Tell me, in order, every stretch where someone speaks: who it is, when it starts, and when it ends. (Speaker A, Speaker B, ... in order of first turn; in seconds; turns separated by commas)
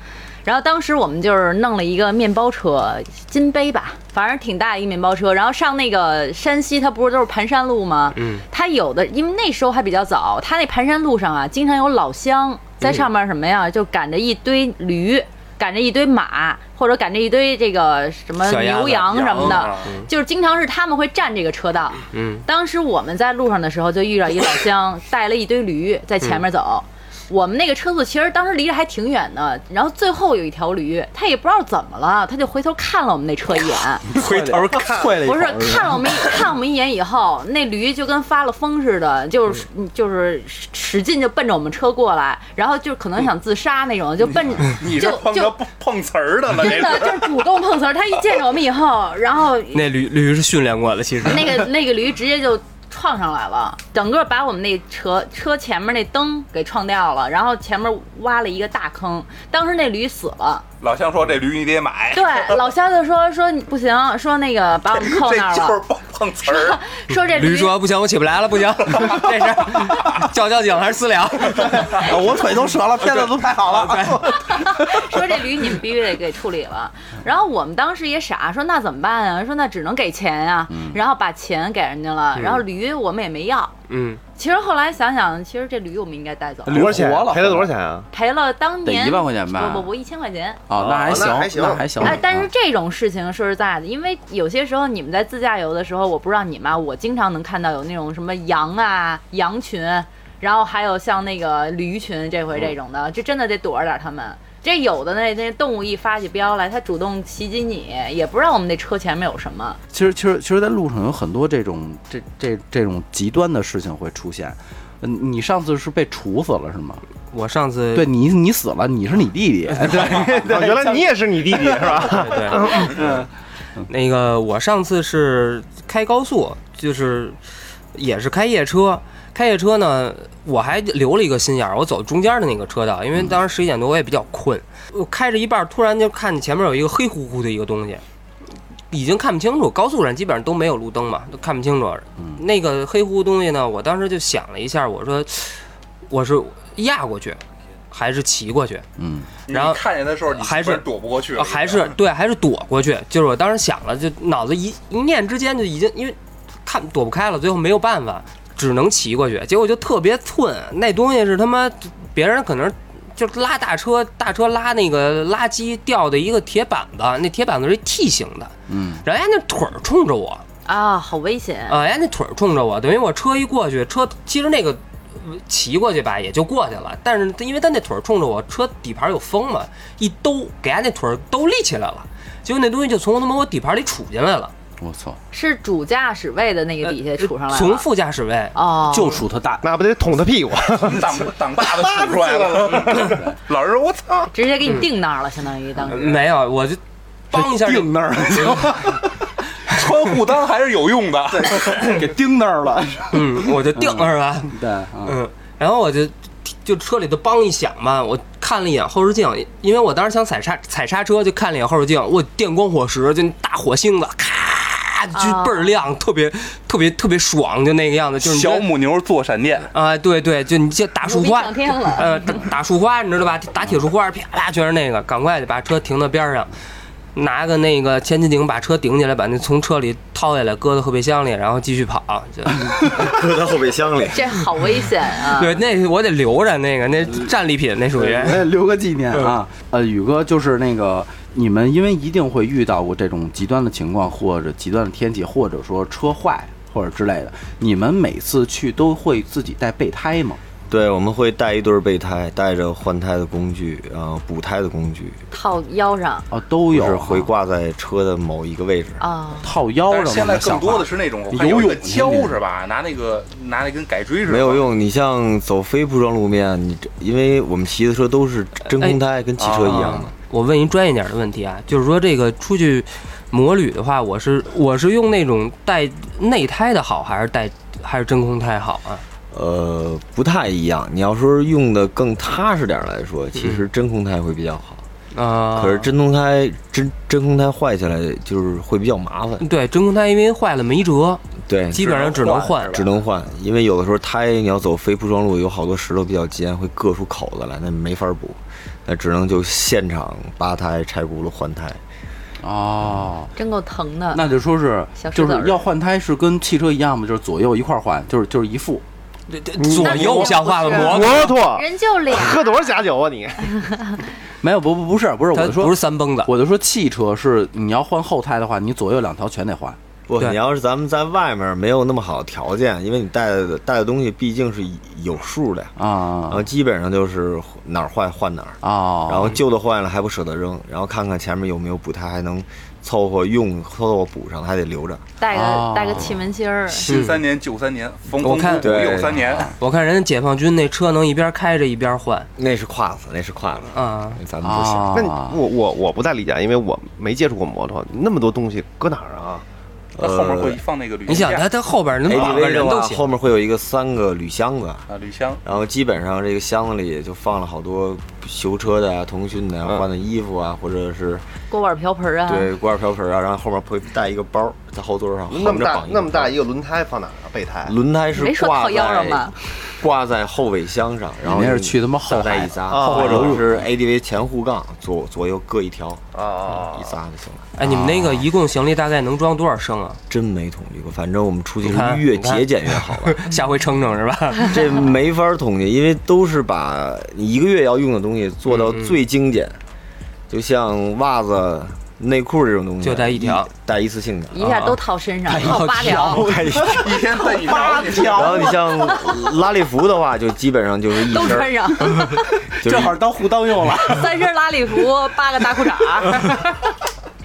Speaker A: 0.4-34.2, Speaker B: 8.1-8.4, Speaker B: 18.4-20.1, Speaker C: 19.1-20.0, Speaker B: 22.1-22.4, Speaker D: 34.1-36.1, Speaker E: 34.2-35.2, Speaker A: 35.1-45.6, Speaker C: 44.3-47.5, Speaker A: 46.5-49.9, Speaker B: 49.7-51.6, Speaker A: 51.2-60.6, Speaker C: 60.8-62.6, Speaker A: 62.1-65.8, Speaker C: 64.9-66.8, Speaker A: 66.4-67.8, Speaker B: 67.3-72.4, Speaker C: 68.9-69.3, Speaker D: 71.9-74.3, Speaker E: 72.0-74.1, Speaker B: 73.2-74.4, Speaker A: 74.2-83.7, Speaker D: 80.7-81.0, Speaker B: 82.3-82.6, Speaker B: 83.9-84.2, Speaker A: 84.3-86.9, Speaker D: 86.7-87.7, Speaker E: 86.7-88.1, Speaker A: 88.1-90.7, Speaker D: 88.8-89.9, Speaker D: 90.7-92.5, Speaker E: 90.7-92.2, Speaker A: 91.9-109.8, Speaker D: 109.9-117.0, Speaker B: 117.3-118.1, Speaker D: 117.9-121.0, Speaker E: 119.8-123.2, Speaker B: 122.0-123.2, Speaker B: 123.8-127.4, Speaker B: 127.9-138.0, Speaker B: 138.9-147.4, Speaker B: 147.9-148.8, Speaker D: 149.0-149.3, Speaker C: 149.5-152.0, Speaker B: 149.5-170.4, Speaker D: 168.7-169.0, Speaker A: 170.7-171.8, Speaker B: 171.7-184.5, Speaker D: 184.8-185.2, Speaker A: 185.3-187.9, Speaker B: 186.9-188.6, Speaker A: 188.5-189.2, Speaker D: 188.9-189.6, Speaker E: 189.6-191.3, Speaker C: 190.7-194.3, Speaker A: 194.3-196.1, Speaker B: 194.6-194.9, Speaker B: 195.8-196.8, Speaker B: 197.3-198.8, Speaker D: 197.3-199.0, Speaker C: 199.7-202.1, Speaker D: 201.5-203.2, Speaker B: 203.1-204.5, Speaker D: 203.7-205.2, Speaker B: 205.0-218.7, Speaker A: 215.1-215.8, Speaker C: 218.2-219.7, Speaker B: 219.7-226.5, Speaker A: 221.0-222.4, Speaker B: 227.1-232.9, Speaker F: 232.9-234.4, Speaker A: 234.1-235.6, Speaker B: 235.2-238.4, Speaker D: 237.9-250.4, Speaker F: 250.7-255.2, Speaker A: 255.3-256.3, Speaker D: 256.3-257.3, Speaker F: 256.7-259.0, Speaker A: 259.0-259.5, Speaker D: 259.4-262.4, Speaker C: 259.9-264.6, Speaker F: 264.3-270.1, Speaker B: 268.7-269.0, Speaker C: 269.4-270.0, Speaker B: 269.6-279.0, Speaker F: 279.3-284.8, Speaker B: 283.4-283.6, Speaker B: 285.1-285.9, Speaker F: 285.5-289.5, Speaker B: 289.4-292.8, Speaker F: 291.5-292.1, Speaker C: 291.8-292.9, Speaker F: 292.7-301.8, Speaker D: 302.4-303.3, Speaker A: 303.4-304.2, Speaker D: 304.1-308.8, Speaker A: 305.0-305.6, Speaker B: 309.3-311.4, Speaker E: 309.6-313.6, Speaker A: 309.6-312.8, Speaker D: 314.4-319.8, Speaker B: 315.3-316.3, Speaker F: 320.1-325.7, Speaker D: 325.8-326.4, Speaker F: 326.3-335.0, Speaker D: 328.6-329.3, Speaker A: 335.2-337.1, Speaker D: 335.3-336.3, Speaker C: 336.7-339.6, Speaker B: 336.9-337.2, Speaker B: 338.2-338.8, Speaker F: 338.6-339.3, Speaker B: 339.6-342.3, Speaker F: 342.4-345.1, Speaker B: 343.7-344.2, Speaker D: 344.4-345.4, Speaker E: 344.9-349.4, Speaker F: 350.0-350.6, Speaker C: 350.0-351.5, Speaker B: 351.1-353.1, Speaker F: 352.1-354.9, Speaker C: 354.9-355.4, Speaker F: 355.4-361.2, Speaker A: 361.5-362.5, Speaker F: 362.3-366.3, Speaker E: 365.3-367.8, Speaker F: 367.6-376.0, Speaker A: 368.1-369.4, Speaker D: 371.2-373.5, Speaker E: 372.7-373.4, Speaker E: 376.1-376.9, Speaker F: 376.6-377.5, Speaker B: 377.6-380.0, Speaker D: 377.6-378.2, Speaker F: 380.1-383.1, Speaker B: 381.6-384.7, Speaker F: 384.5-389.6, Speaker B: 388.5-388.9, Speaker F: 390.3-394.4, Speaker B: 392.8-393.5, Speaker A: 394.3-396.3, Speaker B: 394.4-394.8, Speaker D: 395.3-398.6, Speaker B: 395.3-396.2, Speaker F: 396.1-397.1, Speaker C: 396.8-398.5, Speaker A: 397.5-399.3, Speaker F: 398.1-402.0, Speaker A: 401.0-402.3, Speaker F: 402.6-403.0, Speaker D: 402.6-404.2, Speaker A: 403.8-406.4